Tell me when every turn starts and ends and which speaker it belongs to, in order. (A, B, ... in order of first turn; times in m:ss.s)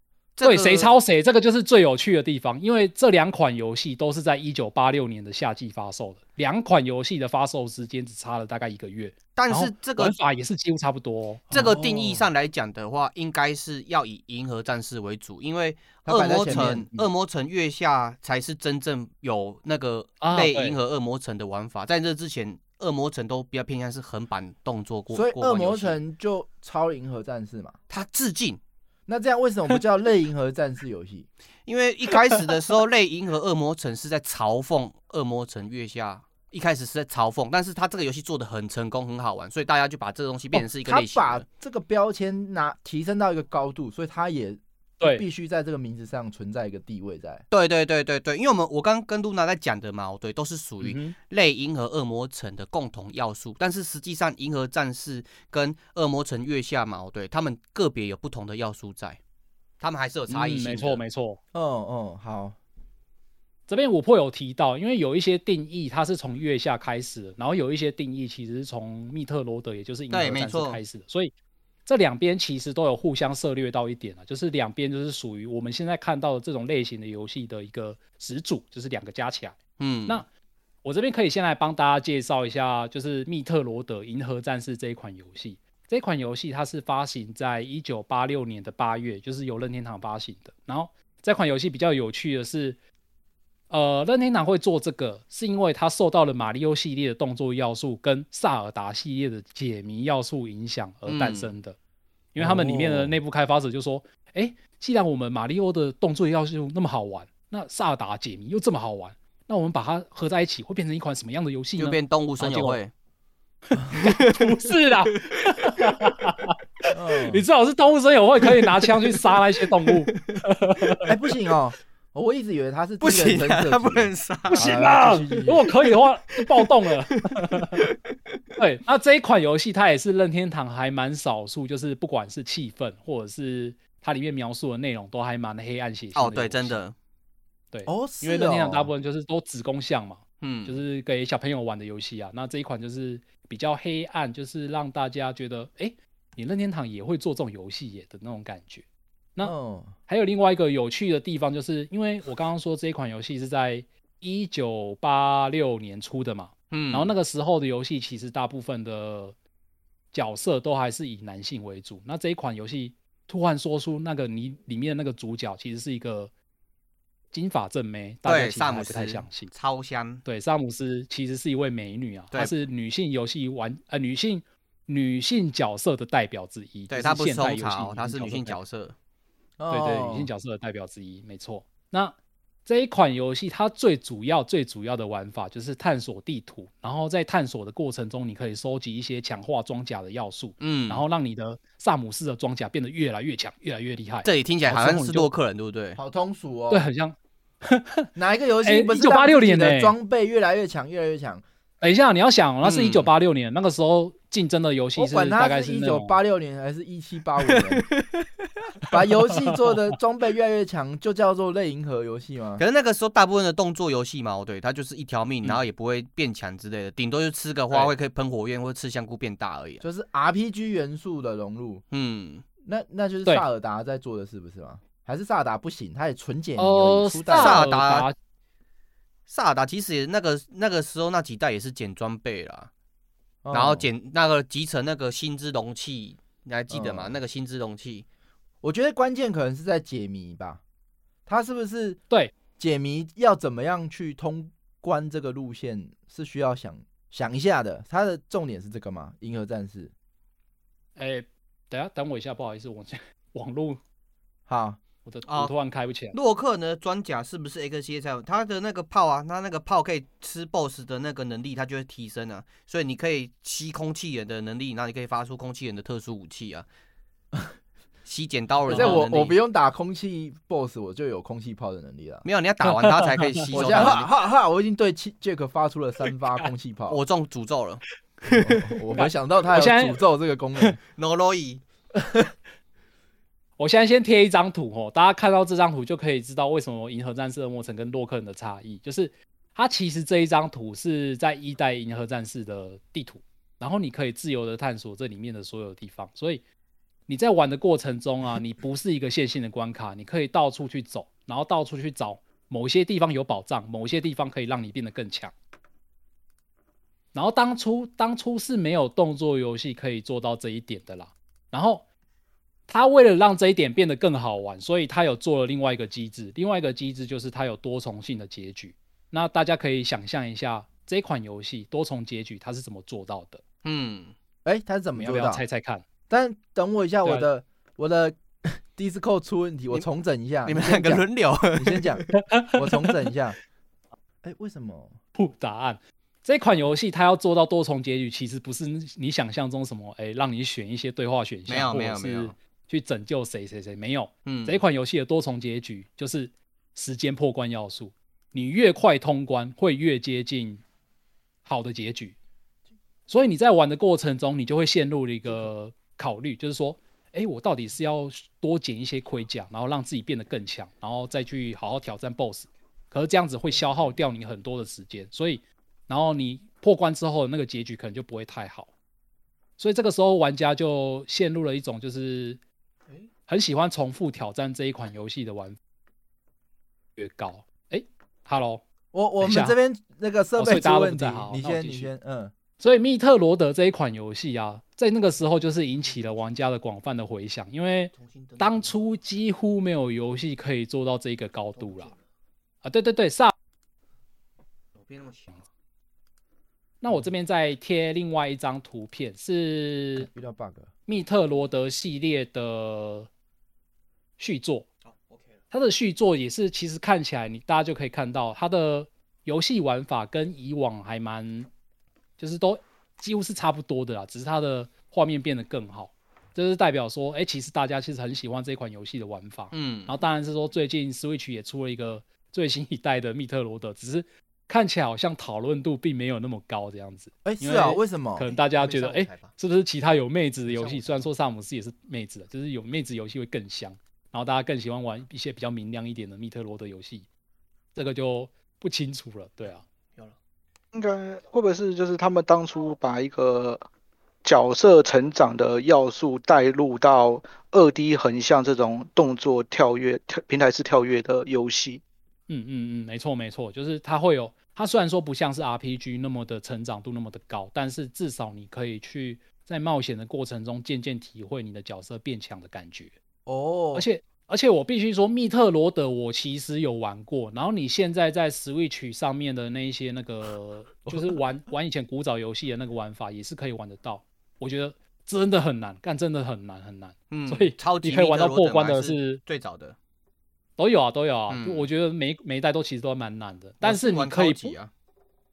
0:00.4-0:00.9 A
0:00.4-0:11.5 B
0:09.4-0:10.2 A
0:11.5-0:12.3 C
0:11.5-0:26.0 A
0:16.0-0:16.9 C
0:16.5-0:17.0 B
0:20.2-0:20.8 B
0:25.1-0:27.8 C
0:27.9-0:28.6 A
0:29.1-0:31.3 C
0:31.6-0:41.4 A
0:40.5-0:47.4 C
0:45.0-0:45.2 B
0:47.5-0:59.2 A
0:50.8-0:51.2 B
0:59.8-1:01.0 A
1:00.3-1:01.4 B
1:01.5-1:02.6 C
1:03.7-1:11.3 B
1:10.1-1:10.8 A
1:11.8-1:20.2 B
1:19.8-1:20.2 A
1:20.8-1:32.8 B
1:33.7-1:41.8 B
1:41.1-1:41.5 A
1:42.3-1:52.8 B
1:42.4-1:43.2 C
1:51.8-1:52.9 A
1:53.7-2:01.0 B
1:54.0-1:54.6 A
1:55.2-1:55.4 A
1:56.9-1:57.4 C
2:00.1-2:00.4 A
2:01.0-2:05.6 C
2:03.0-2:04.8 A
2:04.5-2:07.8 B
2:07.2-2:08.0 A
2:08.6-2:16.8 B
2:16.1-2:16.9 A
2:17.7-2:28.8 B
2:17.8-2:18.9 C
2:20.4-2:20.8 A
2:29.4-2:29.9 C
2:30.1-2:39.3 B
2:36.7-2:37.1 A
2:40.1-2:46.3 B
2:47.3-2:49.5 B
2:48.2-2:50.2 A
2:50.2-2:58.6 B
2:56.9-2:59.0 A
2:59.6-3:00.3 C
2:59.7-3:02.1 B
3:02.6-3:15.3 B
3:10.6-3:11.0 A
3:14.2-3:16.0 A
3:16.0-3:16.9 C
3:16.7-3:18.1 B
3:18.2-3:21.4 C
3:18.6-3:19.9 B
3:21.8-3:26.2 B
3:22.6-3:23.1 A
3:25.0-3:27.9 C
3:27.5-3:28.2 A
3:28.9-3:32.6 C
3:29.4-3:29.7 B
3:32.6-3:39.8 A
3:39.8-3:41.8 C
3:41.9-3:42.4 A
3:42.6-3:47.7 C
3:46.6-3:48.2 B
3:47.3-3:48.1 A
3:49.3-3:52.7 A
3:53.4-3:53.9 C
3:53.5-3:58.0 A
3:56.7-3:57.2 C
3:58.6-4:00.6 C
4:01.2-4:02.0 C
4:02.6-4:09.9 C
4:11.0-4:13.8 B
4:14.5-4:14.8 C
4:15.0-4:16.1 B
4:15.2-4:15.5 A
4:16.1-4:26.6 A
4:28.0-4:29.4 A
4:28.7-4:29.0 B
4:28.7-4:32.2 C
4:32.2-4:34.1 A
4:32.7-4:33.8 B
4:33.5-4:37.0 C
4:36.9-4:38.6 A
4:38.3-4:40.8 C
4:38.9-4:40.0 B
4:40.9-4:41.6 A
4:43.6-4:56.4 B
4:57.1-5:05.3 B
5:07.1-5:11.8 B
5:12.7-5:23.4 B
5:23.6-5:24.1 A
5:24.4-5:25.4 C
5:25.0-5:25.8 B
5:26.1-5:33.4 C
5:30.4-5:32.0 A
5:34.2-5:35.0 C
5:35.1-5:50.6 B
5:41.5-5:42.3 A
5:44.2-5:44.6 A
5:51.4-5:52.2 B
5:53.1-6:08.7 B
6:09.6-6:12.4 B
6:13.3-6:15.6 B
6:17.0-6:18.6 B
6:18.9-6:22.3 C
6:19.2-6:19.6 B
6:20.4-6:21.9 B
6:22.6-6:31.9 B
6:28.0-6:28.7 A
6:31.6-6:32.0 A
6:32.6-6:33.3 B
6:34.8-6:35.4 A
6:36.8-6:40.1 B
6:40.0-6:40.7 C
6:40.9-6:43.1 B
6:44.2-6:44.7 B
6:44.9-6:45.2 A
6:45.5-6:51.5 B
6:52.2-7:17.1 B
6:59.5-7:00.0 A
7:07.2-7:08.2 C
7:08.2-7:09.3 A
7:10.5-7:10.9 A
7:17.7-7:19.6 B
7:20.7-7:23.6 D
7:24.2-7:31.8 D
7:32.3-7:42.9 B
7:43.2-7:43.9 C
7:43.7-7:59.2 B
7:50.9-7:51.2 C
7:57.1-7:59.8 A
8:00.6-8:04.6 B
8:01.3-8:01.7 A
8:03.6-8:04.7 A